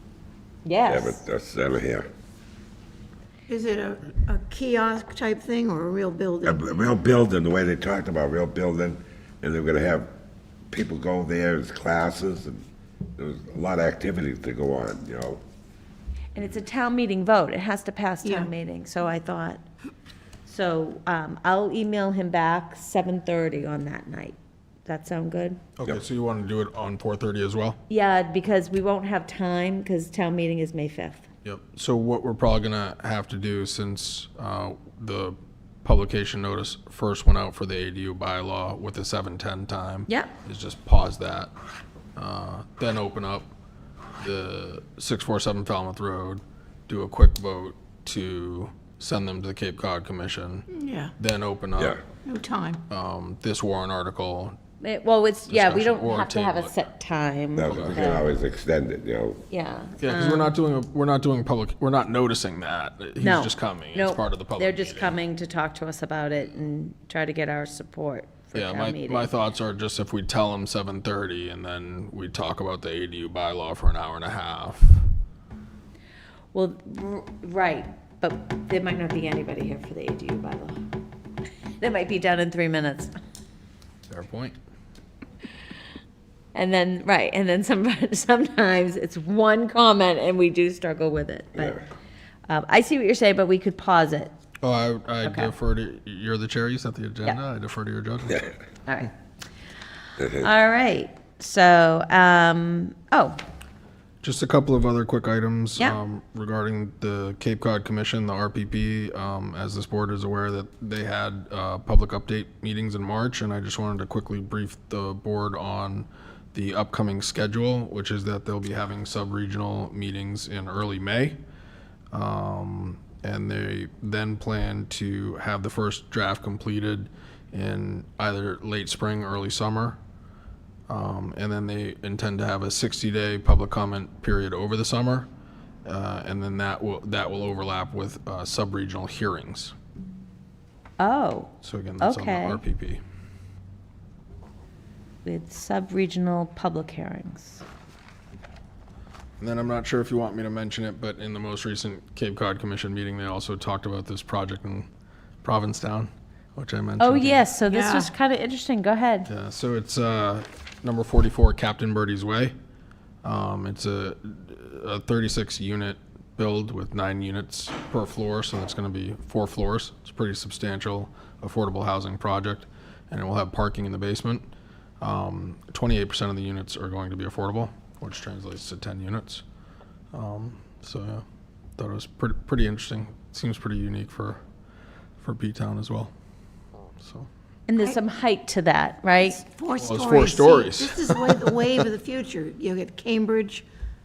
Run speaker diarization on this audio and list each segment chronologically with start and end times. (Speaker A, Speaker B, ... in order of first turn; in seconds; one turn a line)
Speaker A: 0.7-1.2
Speaker B: 0.9-2.1
Speaker C: 3.5-6.7
Speaker B: 6.4-10.1
Speaker B: 10.7-12.6
Speaker B: 13.2-15.4
Speaker A: 16.4-19.6
Speaker C: 18.2-18.5
Speaker A: 20.5-25.6
Speaker D: 25.8-27.8
Speaker A: 27.9-31.2
Speaker D: 31.4-41.5
Speaker D: 42.2-43.5
Speaker D: 44.2-52.0
Speaker C: 50.7-51.1
Speaker C: 52.2-52.8
Speaker D: 52.9-54.6
Speaker A: 54.8-58.3
Speaker D: 55.5-56.7
Speaker B: 57.6-59.4
Speaker D: 57.6-58.2
Speaker A: 59.5-60.5
Speaker D: 60.0-65.2
Speaker A: 63.2-69.3
Speaker D: 68.5-75.1
Speaker A: 76.5-80.8
Speaker A: 81.8-83.1
Speaker D: 84.1-84.6
Speaker A: 86.5-91.8
Speaker B: 91.6-91.8
Speaker A: 92.5-94.3
Speaker D: 94.6-98.5
Speaker A: 95.2-95.5
Speaker A: 98.9-99.1
Speaker B: 100.2-100.5
Speaker A: 100.3-103.4
Speaker D: 104.2-121.4
Speaker D: 122.1-130.0
Speaker D: 130.9-135.3
Speaker D: 135.9-139.7
Speaker A: 141.0-142.6
Speaker D: 141.6-143.0
Speaker A: 145.2-147.6
Speaker D: 149.4-154.9
Speaker D: 155.4-157.5
Speaker A: 157.0-159.3
Speaker C: 157.7-158.1
Speaker D: 159.3-162.6
Speaker D: 163.2-174.5
Speaker D: 175.0-179.4
Speaker D: 180.1-181.2
Speaker D: 181.8-184.4
Speaker D: 185.2-186.1
Speaker D: 187.0-187.3
Speaker A: 187.7-189.4
Speaker C: 189.2-193.7
Speaker D: 189.8-191.6